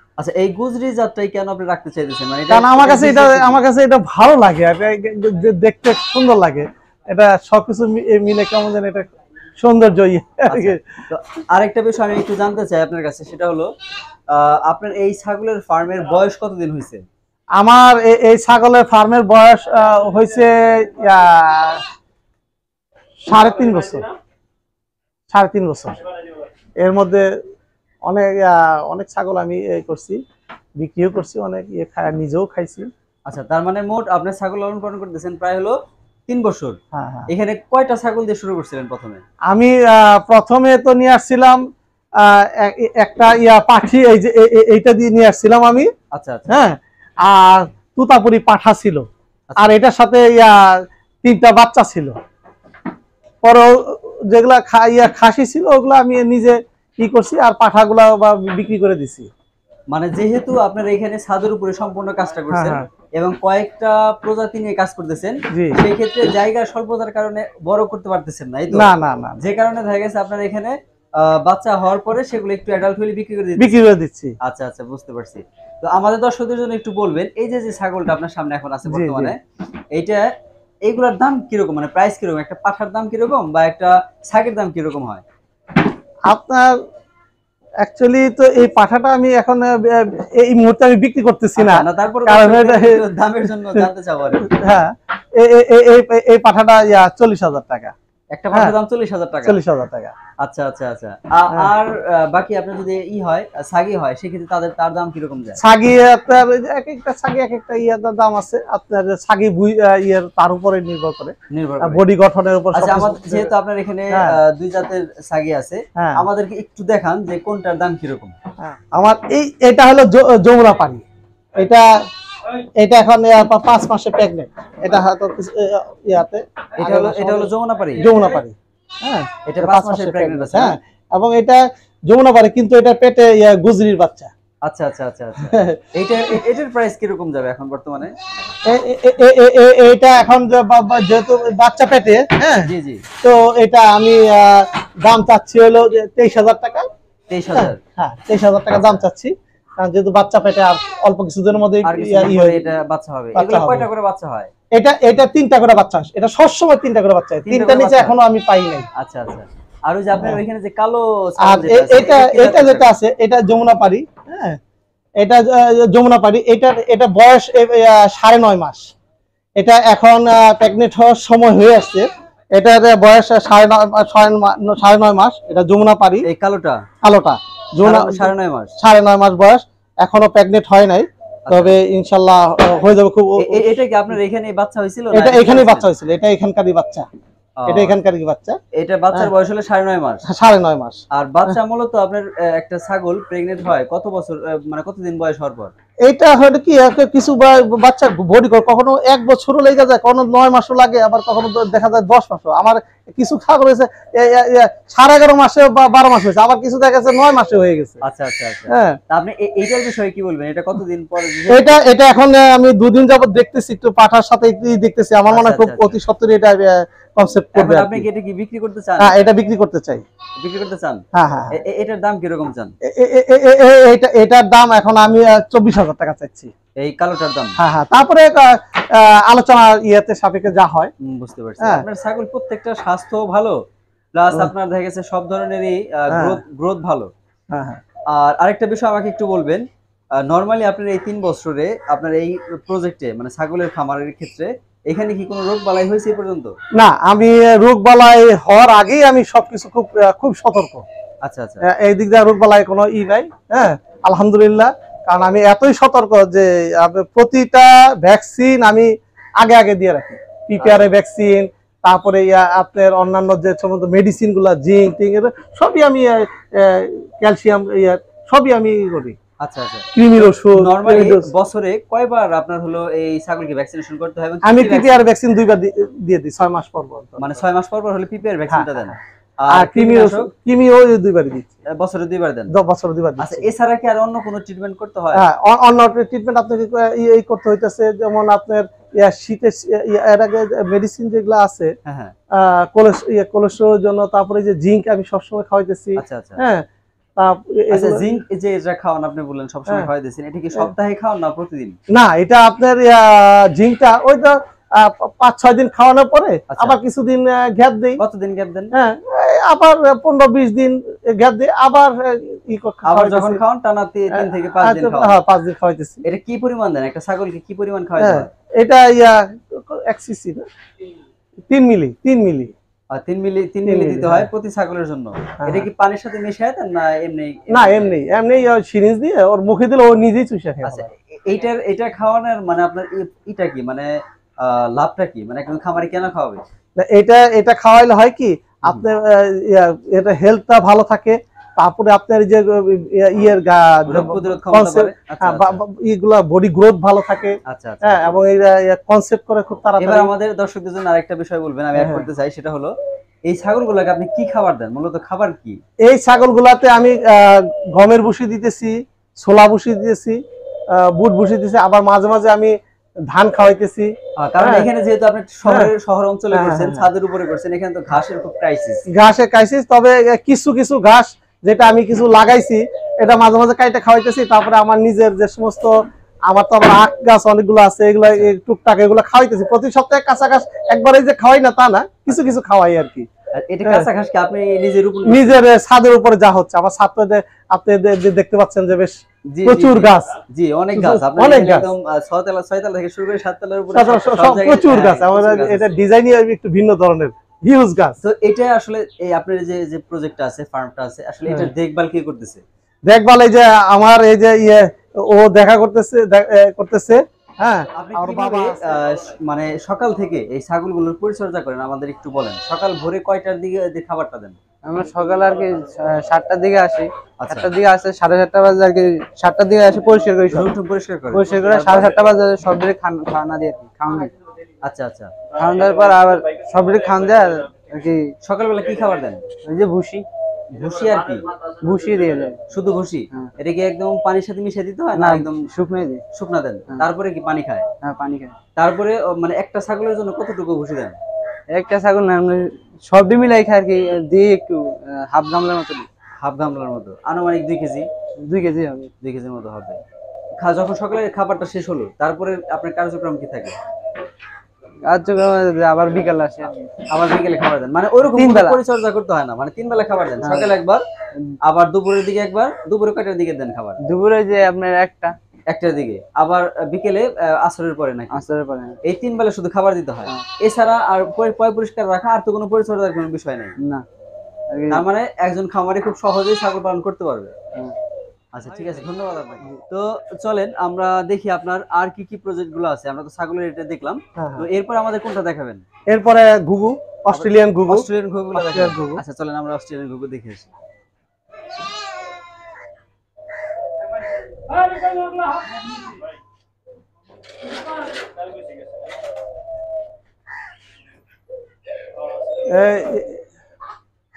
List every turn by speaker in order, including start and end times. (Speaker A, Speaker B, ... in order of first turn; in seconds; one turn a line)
Speaker A: 0.2-3.6
Speaker B: 2.5-9.1
Speaker B: 9.6-10.8
Speaker A: 10.5-13.7
Speaker A: 14.3-17.0
Speaker B: 17.6-21.8
Speaker B: 23.2-24.1
Speaker B: 25.3-26.0
Speaker B: 26.8-27.3
Speaker B: 28.1-30.2
Speaker B: 30.8-32.9
Speaker A: 33.3-35.8
Speaker A: 36.3-39.2
Speaker B: 36.9-37.3
Speaker B: 39.5-41.6
Speaker B: 42.2-45.9
Speaker A: 46.1-46.6
Speaker B: 46.5-49.0
Speaker B: 49.6-50.5
Speaker B: 51.2-52.1
Speaker B: 53.4-59.3
Speaker A: 59.9-73.8
Speaker B: 62.5-62.9
Speaker B: 65.5-65.8
Speaker B: 68.7-69.4
Speaker B: 73.6-74.3
Speaker A: 74.4-79.4
Speaker B: 78.9-79.3
Speaker A: 79.9-80.2
Speaker A: 80.8-85.2
Speaker B: 86.3-86.7
Speaker B: 87.8-93.0
Speaker A: 91.6-94.5
Speaker B: 94.4-97.9
Speaker A: 98.3-99.6
Speaker B: 99.4-100.1
Speaker A: 100.4-105.6
Speaker B: 105.6-113.5
Speaker A: 111.5-112.0
Speaker A: 112.7-118.3
Speaker B: 114.1-114.4
Speaker B: 116.0-116.2
Speaker B: 118.6-121.0
Speaker B: 121.5-121.9
Speaker B: 122.8-134.3
Speaker A: 126.8-128.1
Speaker A: 129.4-130.8
Speaker A: 134.6-138.1
Speaker B: 135.5-135.8
Speaker B: 138.7-142.7
Speaker A: 142.6-143.0
Speaker B: 143.2-146.8
Speaker A: 147.3-147.8
Speaker B: 147.5-152.7
Speaker A: 151.8-154.5
Speaker B: 153.3-153.9
Speaker B: 154.7-158.9
Speaker A: 157.5-158.1
Speaker A: 159.0-162.9
Speaker B: 161.4-164.6
Speaker B: 165.2-168.9
Speaker B: 169.6-176.2
Speaker A: 176.2-176.8
Speaker B: 177.0-183.8
Speaker A: 177.8-178.7
Speaker A: 181.5-181.8
Speaker A: 183.4-185.9
Speaker B: 185.1-187.1
Speaker A: 187.6-188.0
Speaker B: 187.7-188.6
Speaker A: 188.7-190.2
Speaker B: 190.3-191.6
Speaker A: 191.1-195.7
Speaker B: 196.1-208.0
Speaker A: 208.0-211.8
Speaker B: 208.7-209.0
Speaker B: 211.5-218.1
Speaker A: 215.3-216.0
Speaker A: 217.5-219.2
Speaker B: 219.0-220.0
Speaker A: 220.4-222.7
Speaker B: 221.1-221.5
Speaker B: 222.9-226.5
Speaker A: 226.8-227.6
Speaker B: 227.6-230.9
Speaker A: 231.0-233.6
Speaker B: 231.6-231.8
Speaker A: 234.1-237.1
Speaker B: 236.1-236.4
Speaker B: 237.5-237.8
Speaker A: 238.1-239.6
Speaker A: 240.2-246.5
Speaker B: 246.8-250.8
Speaker A: 251.2-251.6
Speaker B: 251.6-269.1
Speaker A: 260.6-260.9
Speaker A: 269.4-275.1
Speaker B: 269.9-271.3
Speaker B: 274.4-277.4
Speaker A: 277.2-280.3
Speaker B: 278.5-278.9
Speaker B: 279.5-281.5
Speaker A: 281.7-282.5
Speaker B: 282.5-283.5
Speaker A: 283.2-285.2
Speaker B: 285.1-291.7
Speaker A: 291.9-292.1
Speaker B: 292.3-296.6
Speaker A: 296.0-296.4
Speaker B: 297.2-298.0
Speaker A: 297.7-301.7
Speaker B: 301.9-308.0
Speaker A: 306.5-306.8
Speaker A: 308.0-308.7
Speaker B: 308.7-313.4
Speaker A: 312.8-315.2
Speaker B: 314.1-316.0
Speaker A: 316.0-318.3
Speaker B: 318.0-320.5
Speaker B: 321.5-322.5
Speaker A: 322.9-327.9
Speaker B: 323.6-324.3
Speaker B: 325.4-325.7
Speaker B: 327.5-330.9
Speaker A: 330.6-336.4
Speaker B: 336.8-350.1
Speaker A: 343.9-345.6
Speaker A: 347.5-348.1
Speaker A: 349.8-352.7
Speaker B: 351.7-352.1
Speaker A: 353.3-355.6
Speaker B: 355.9-360.2
Speaker B: 360.7-362.5
Speaker B: 363.1-364.7
Speaker A: 364.2-368.8
Speaker B: 365.4-365.7
Speaker B: 366.3-366.9
Speaker B: 368.9-375.8
Speaker B: 376.3-383.1
Speaker A: 382.1-382.3
Speaker A: 383.3-385.4
Speaker B: 385.1-390.1
Speaker A: 389.3-395.8
Speaker B: 390.7-391.7
Speaker B: 393.7-398.0
Speaker A: 398.0-402.4
Speaker B: 402.9-408.8
Speaker A: 407.7-414.4
Speaker C: 414.6-420.5
Speaker A: 417.2-417.5
Speaker A: 420.3-421.9
Speaker C: 421.1-424.1
Speaker A: 424.6-425.1
Speaker C: 425.3-428.1
Speaker A: 428.2-429.2
Speaker C: 429.4-430.1
Speaker A: 430.5-431.3
Speaker C: 431.6-432.4
Speaker A: 432.5-435.5
Speaker C: 434.9-436.0
Speaker A: 436.1-437.7
Speaker C: 437.8-438.4
Speaker A: 438.6-441.0
Speaker C: 441.5-445.9
Speaker A: 446.2-447.9
Speaker C: 448.2-448.9
Speaker A: 449.0-449.8
Speaker A: 450.4-453.6
Speaker C: 454.9-456.7
Speaker A: 456.9-460.8
Speaker C: 458.1-458.6
Speaker C: 460.2-460.5
Speaker A: 461.4-463.8
Speaker C: 463.8-465.1
Speaker A: 465.5-468.2
Speaker C: 468.1-468.8
Speaker A: 468.8-473.6
Speaker C: 473.6-473.8
Speaker C: 474.5-474.9
Speaker A: 474.7-477.3
Speaker A: 478.3-485.6
Speaker B: 484.2-484.5
Speaker B: 485.9-489.0
Speaker A: 487.1-490.5
Speaker C: 494.8-495.0
Speaker B: 502.4-503.2